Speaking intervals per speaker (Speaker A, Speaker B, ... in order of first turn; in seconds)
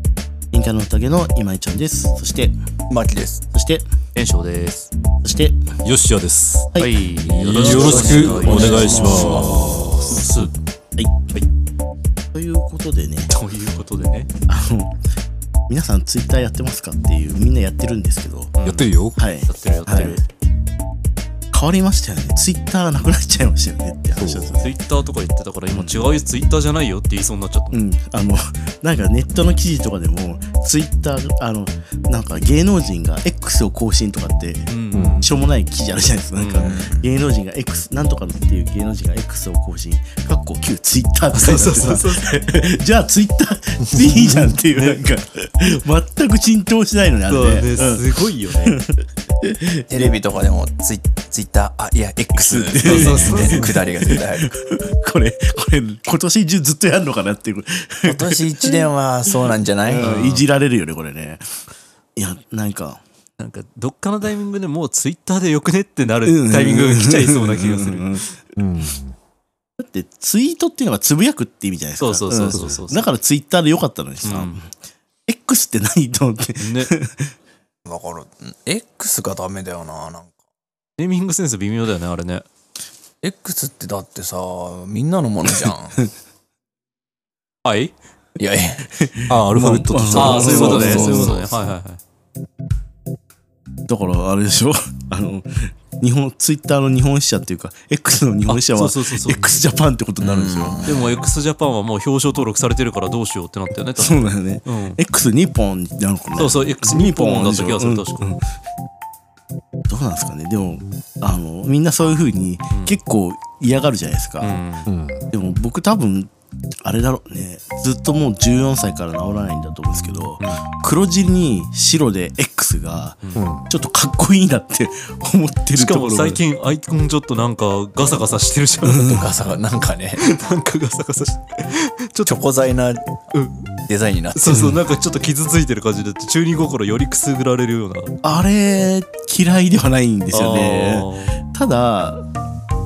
Speaker A: 0.5-2.5, 3.5-3.8, 5.2-5.6, 7.5-10.2, 11.0-11.4, 12.3-13.3, 14.5-14.9, 15.7-18.5, 19.1-20.2, 21.5-24.7, 25.7-26.1, 27.7-50.1, 52.3-61.5, 62.2-63.0, 66.2-68.3, 69.8-74.7, 75.3-77.3, 88.9-91.4, 93.9-100.8, 104.0-108.4, 109.9-114.6, 115.3-126.4, 128.8-129.3, 138.2-142.2
Speaker B: 2.9-3.5, 7.6-10.1, 36.6-37.1, 49.9-54.5, 58.0-60.2, 77.9-80.3, 83.2-86.0, 88.4-88.9, 90.2-91.5, 100.2-101.1, 129.1-130.2, 132.3-133.2, 133.9-134.8
Speaker C: 4.1-4.9, 6.8-10.5, 13.3-14.3, 18.6-18.9, 19.5-20.2, 24.6-27.8, 34.7-35.3, 36.4-36.7, 41.3-42.4, 44.7-45.0, 47.3-48.8, 52.8-53.7, 60.0-60.4, 63.4-68.3, 72.0-73.1, 74.2-74.6, 76.6-76.9, 81.0-82.5, 87.6-87.9, 90.1-92.0, 98.5-99.5, 100.8-105.0, 106.3-108.3, 114.4-114.9, 120.4-120.6, 125.7-129.3, 130.2-132.4, 133.3-133.6, 134.3-138.1, 140.3-141.4
Speaker D: 5.8-10.5, 18.6-19.2, 24.1-24.6, 34.9-35.2, 43.9-44.4, 68.5-69.1, 72.4-72.8, 89.3-91.4, 114.9-115.3, 123.3-123.7